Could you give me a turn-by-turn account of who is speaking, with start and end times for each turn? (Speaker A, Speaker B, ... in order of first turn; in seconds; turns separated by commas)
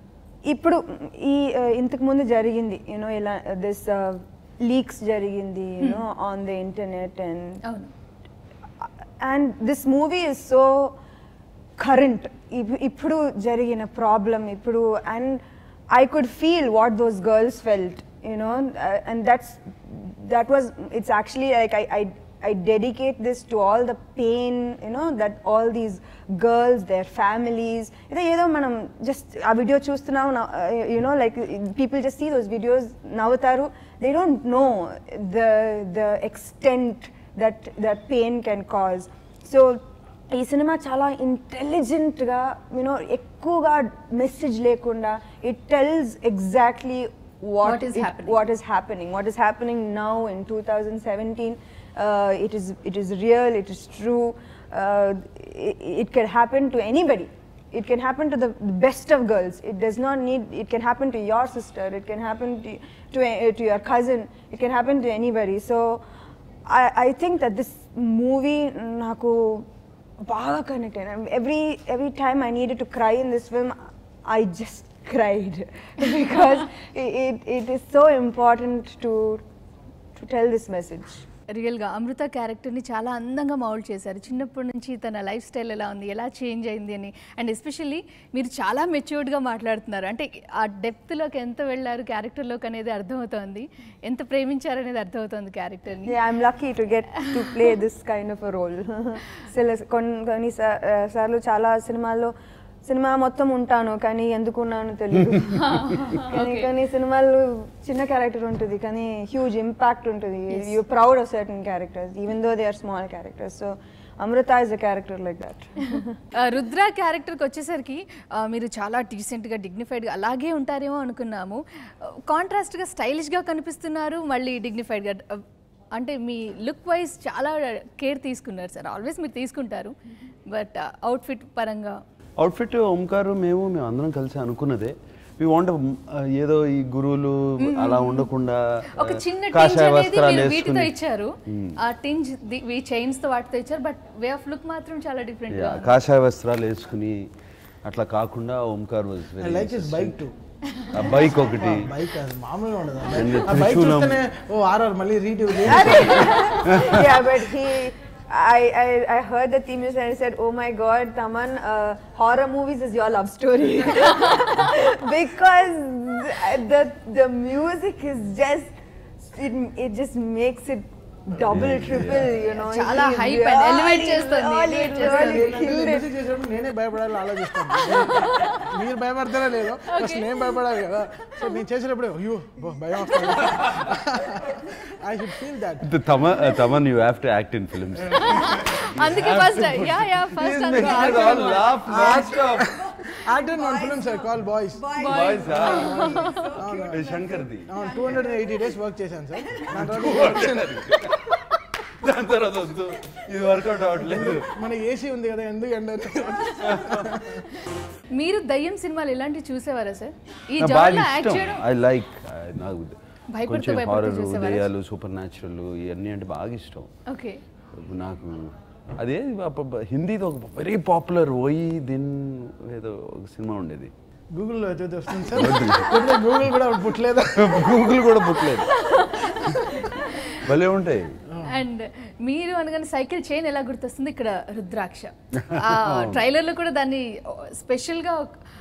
Speaker A: 0.4-7.6, Speaker B: 7.6-7.9, Speaker A: 8.8-11.0, Speaker A: 11.8-66.0, Speaker B: 47.6-48.4, Speaker A: 66.7-69.7, Speaker A: 70.2-79.4, Speaker A: 80.2-81.2, Speaker B: 81.5-96.2, Speaker A: 96.0-102.3, Speaker A: 102.8-116.2, Speaker B: 105.5-106.7, Speaker B: 110.5-110.8, Speaker B: 115.9-129.9, Speaker B: 130.4-132.0, Speaker C: 132.4-140.9, Speaker B: 137.6-138.3, Speaker B: 138.9-145.9, Speaker C: 141.4-141.8, Speaker C: 145.5-147.3, Speaker C: 147.8-150.2, Speaker D: 149.4-150.3, Speaker C: 150.9-151.9, Speaker D: 151.4-156.8, Speaker C: 153.1-154.2, Speaker A: 155.7-168.7, Speaker C: 155.7-157.1, Speaker A: 169.2-176.1, Speaker C: 171.5-172.4, Speaker B: 172.5-175.7, Speaker D: 175.0-185.9, Speaker A: 177.9-178.6, Speaker B: 178.0-178.4, Speaker B: 179.9-180.6, Speaker C: 185.8-192.8, Speaker B: 188.2-192.2, Speaker D: 191.8-200.8, Speaker A: 192.0-192.3, Speaker A: 193.1-198.6, Speaker B: 194.9-196.5, Speaker C: 195.0-196.0, Speaker C: 196.9-198.0, Speaker C: 199.7-204.5, Speaker D: 204.0-207.4, Speaker C: 206.7-207.1, Speaker B: 208.1-211.6, Speaker C: 210.6-216.9, Speaker B: 213.3-214.7, Speaker B: 217.1-217.4, Speaker C: 217.7-223.9, Speaker D: 224.3-228.0, Speaker C: 225.2-226.3, Speaker C: 227.3-228.8, Speaker B: 228.5-230.5, Speaker C: 230.3-231.2, Speaker D: 231.3-231.6, Speaker B: 231.4-238.4, Speaker C: 235.4-236.2